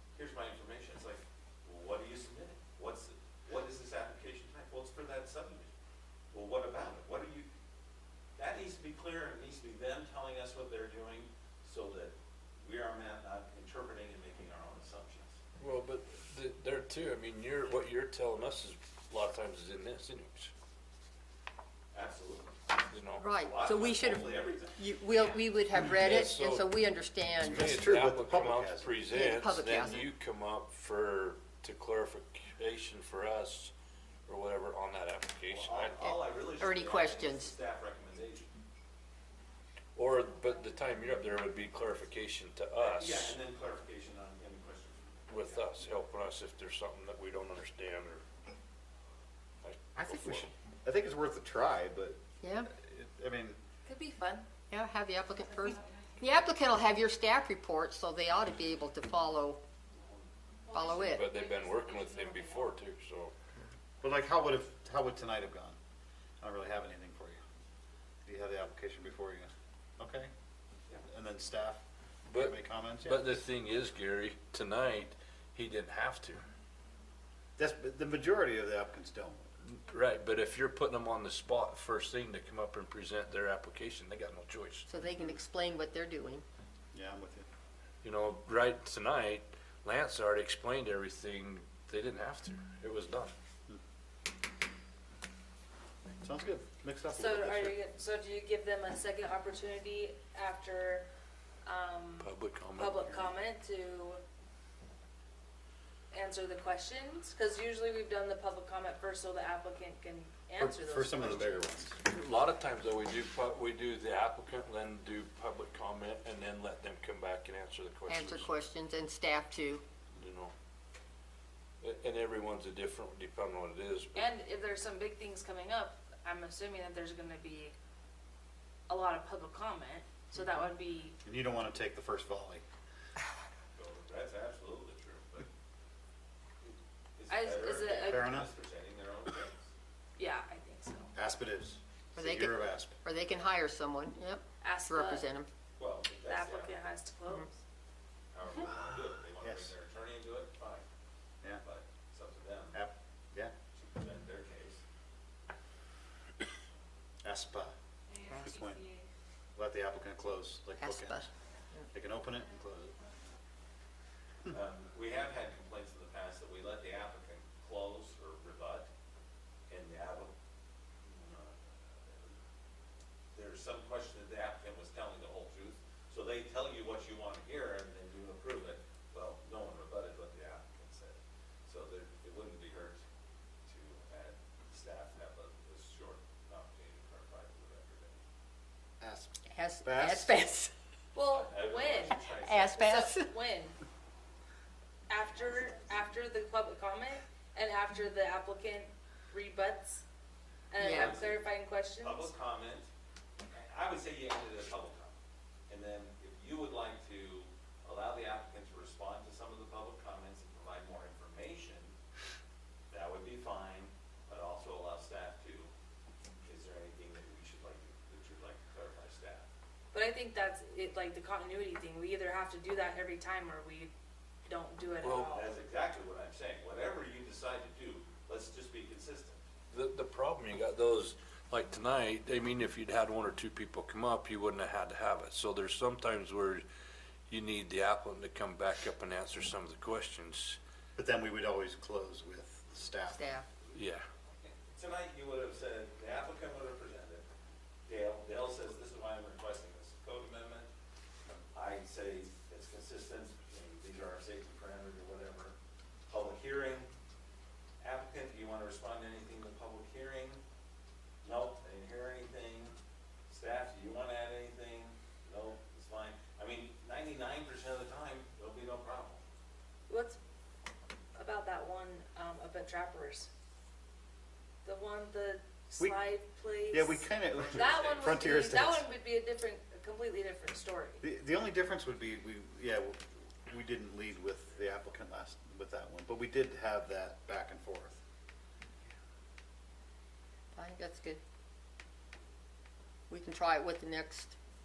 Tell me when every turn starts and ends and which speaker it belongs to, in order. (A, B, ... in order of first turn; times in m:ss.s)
0:00.2-0:05.7 A
0:06.3-0:07.5 A
0:08.4-0:15.3 A
0:15.6-0:20.5 B
0:21.9-0:22.6 A
0:22.9-0:23.3 B
0:23.2-0:27.7 C
0:23.3-0:24.9 A
0:25.8-0:26.7 B
0:27.4-0:33.7 B
0:27.4-0:29.0 D
0:29.1-0:30.1 C
0:34.3-0:36.1 B
0:35.5-0:38.5 A
0:36.0-0:37.5 C
0:40.0-0:43.4 B
0:42.8-0:45.6 A
0:45.3-0:48.2 B
0:49.6-0:50.5 B
0:50.0-0:53.6 D
0:52.4-0:52.7 C
0:53.8-0:54.5 E
0:54.7-0:59.6 C
1:00.0-1:00.3 A
1:00.7-1:01.7 E
1:00.7-1:01.3 C
1:01.0-1:03.3 B
1:04.0-1:05.8 D
1:06.4-1:07.4 D
1:08.2-1:10.3 D
1:11.1-1:11.8 D
1:12.3-1:16.4 B
1:12.3-1:13.4 D
1:17.6-1:19.5 D
1:19.6-1:24.9 B
1:24.9-1:26.4 C
1:26.9-1:27.4 D
1:28.0-1:33.3 B
1:36.2-1:37.8 D
1:37.1-1:41.1 E
1:41.6-1:44.2 E
1:42.2-1:43.3 B
1:46.1-1:51.7 E
1:50.6-1:52.0 D
1:52.0-1:58.5 B
1:58.1-1:59.8 C
2:00.2-2:00.5 B
2:01.8-2:04.2 B
2:04.2-2:07.7 E
2:08.9-2:11.2 E
2:11.2-2:12.6 D
2:13.8-2:15.5 A
2:16.6-2:19.7 A
2:17.3-2:18.3 E
2:18.0-2:18.5 D
2:20.2-2:21.1 E
2:21.1-2:23.0 D
2:22.2-2:25.5 C
2:24.6-2:25.3 E
2:25.8-2:26.9 A
2:26.2-2:27.6 E
2:28.3-2:30.8 A
2:29.4-2:29.7 D
2:31.6-2:32.8 A
2:32.7-2:33.5 D
2:33.8-2:34.8 A
2:37.2-2:37.7 D
2:38.2-2:38.8 E
2:38.4-2:38.9 D
2:39.6-2:41.2 D
2:40.8-2:41.3 C
2:41.9-2:43.0 D
2:44.5-2:48.9 A
2:49.7-2:50.3 A
2:51.0-2:52.2 A
2:53.3-3:03.0 A
3:03.7-3:08.2 A
3:09.0-3:10.4 D
3:09.5-3:10.7 C
3:11.1-3:13.8 E
3:11.3-3:12.9 A
3:12.3-3:13.3 C
3:15.1-3:20.0 E
3:20.7-3:22.3 E
3:20.8-3:21.3 C
3:20.8-3:21.4 A
3:22.0-3:22.9 A
3:23.5-3:25.2 A
3:25.7-3:31.9 A
3:32.9-3:35.7 A
3:36.4-3:39.5 A
3:39.9-3:43.9 E
3:44.5-3:45.5 E
3:45.0-3:45.3 B
3:45.3-3:49.4 A
3:49.7-3:56.6 B
3:57.3-4:00.6 B
4:01.0-4:03.2 D
4:03.1-4:03.4 C
4:03.7-4:04.0 B
4:03.7-4:07.3 A
4:07.9-4:10.7 A
4:11.5-4:15.6 A
4:16.1-4:16.9 A
4:17.8-4:20.4 A
4:21.2-4:22.8 A
4:23.3-4:29.2 A
4:29.9-4:30.2 E
4:31.2-4:33.3 E
4:34.6-4:41.0 E
4:36.6-4:38.9 D
4:37.4-4:38.2 A
4:41.0-4:48.0 D
4:50.6-4:51.2 C
4:53.1-4:54.3 C